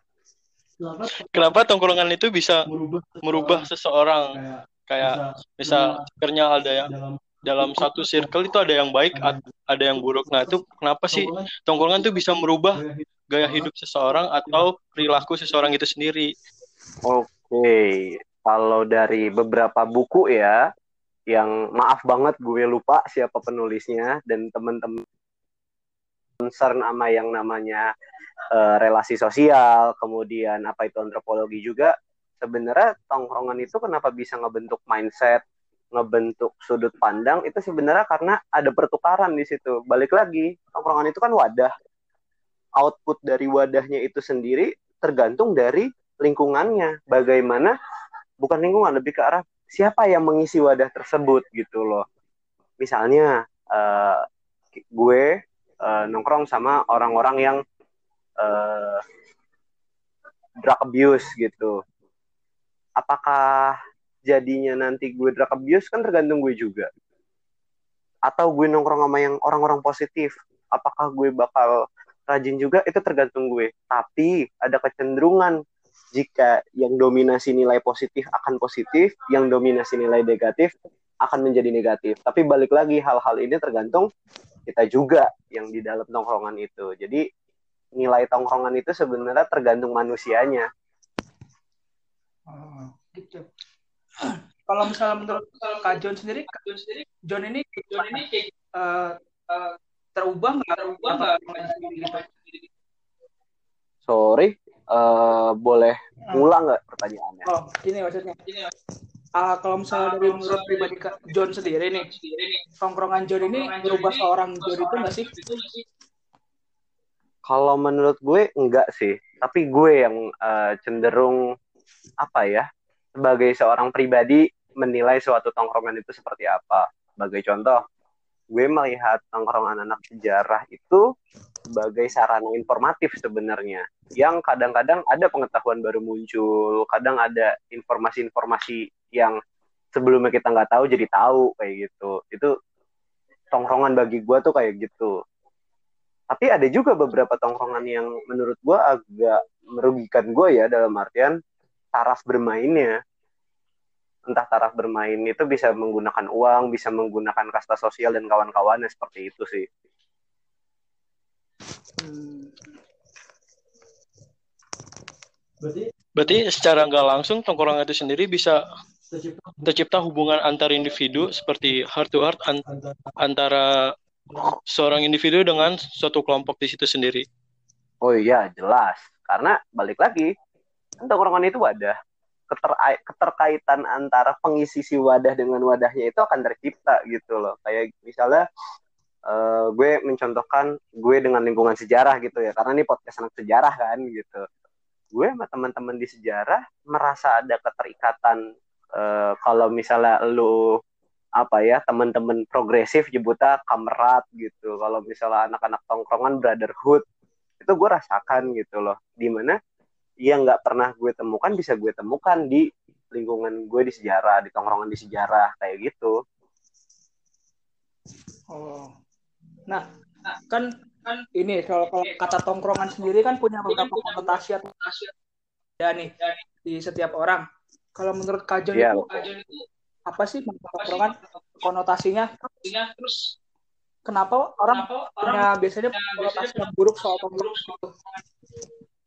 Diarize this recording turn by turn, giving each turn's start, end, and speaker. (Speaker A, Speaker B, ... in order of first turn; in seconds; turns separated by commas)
Speaker A: 0.8-1.6, Speaker B: 1.2-2.7, Speaker A: 2.7-3.7, Speaker B: 3.2-4.3, Speaker A: 4.3-6.0, Speaker B: 4.9-6.9, Speaker A: 6.8-8.3, Speaker B: 7.4-16.3, Speaker A: 9.1-9.5, Speaker A: 11.1-11.5, Speaker A: 12.7-13.7, Speaker A: 14.5-15.3, Speaker C: 17.1-20.6, Speaker C: 21.3-25.0, Speaker C: 26.4-27.9, Speaker C: 28.6-35.4, Speaker C: 36.0-41.7, Speaker C: 42.8-47.7, Speaker C: 48.4-52.0, Speaker C: 52.8-54.2, Speaker C: 54.9-55.3, Speaker C: 55.8-57.6, Speaker C: 58.4-59.0, Speaker C: 60.6-61.8, Speaker C: 63.0-63.8, Speaker C: 64.3-66.9, Speaker C: 68.3-71.7, Speaker C: 72.3-75.6, Speaker C: 76.2-80.7, Speaker C: 81.2-84.1, Speaker C: 84.7-87.2, Speaker C: 88.0-90.7, Speaker D: 92.5-93.5, Speaker D: 94.2-96.6, Speaker E: 95.4-95.9, Speaker E: 96.5-97.0, Speaker D: 97.3-98.2, Speaker E: 98.0-98.5, Speaker D: 98.8-99.1, Speaker E: 99.5-99.8, Speaker D: 100.2-102.2, Speaker E: 100.7-102.7, Speaker C: 104.1-107.5, Speaker D: 107.5-108.4, Speaker D: 109.4-112.1, Speaker E: 109.9-111.2, Speaker E: 112.0-112.6, Speaker D: 112.8-115.3, Speaker E: 113.4-115.8, Speaker C: 117.5-121.4, Speaker C: 122.2-122.7, Speaker C: 123.2-127.8, Speaker C: 128.5-131.0, Speaker C: 131.7-139.3, Speaker C: 140.0-142.5, Speaker C: 143.5-145.1, Speaker C: 146.3-151.3, Speaker C: 151.9-152.9, Speaker C: 154.3-159.7, Speaker D: 162.0-162.5, Speaker A: 165.6-165.9, Speaker B: 166.2-168.6, Speaker A: 169.1-169.8, Speaker B: 169.7-172.6, Speaker A: 172.7-173.1, Speaker B: 173.2-173.9, Speaker B: 174.7-177.2, Speaker C: 178.0-180.3, Speaker C: 181.0-181.9, Speaker C: 182.5-188.4, Speaker C: 189.3-194.4, Speaker C: 195.1-198.4, Speaker C: 199.0-200.7, Speaker C: 201.4-207.0, Speaker C: 207.6-209.6, Speaker C: 210.2-216.1, Speaker D: 218.5-218.9, Speaker D: 221.4-224.7, Speaker E: 222.0-223.1, Speaker E: 223.7-225.1, Speaker D: 225.8-226.1, Speaker E: 226.2-226.4, Speaker D: 226.6-227.4, Speaker D: 228.0-229.0, Speaker C: 228.7-229.3, Speaker E: 229.1-229.7, Speaker D: 230.1-232.5, Speaker E: 230.7-231.6, Speaker E: 232.6-233.3, Speaker D: 234.1-237.9, Speaker E: 234.7-238.2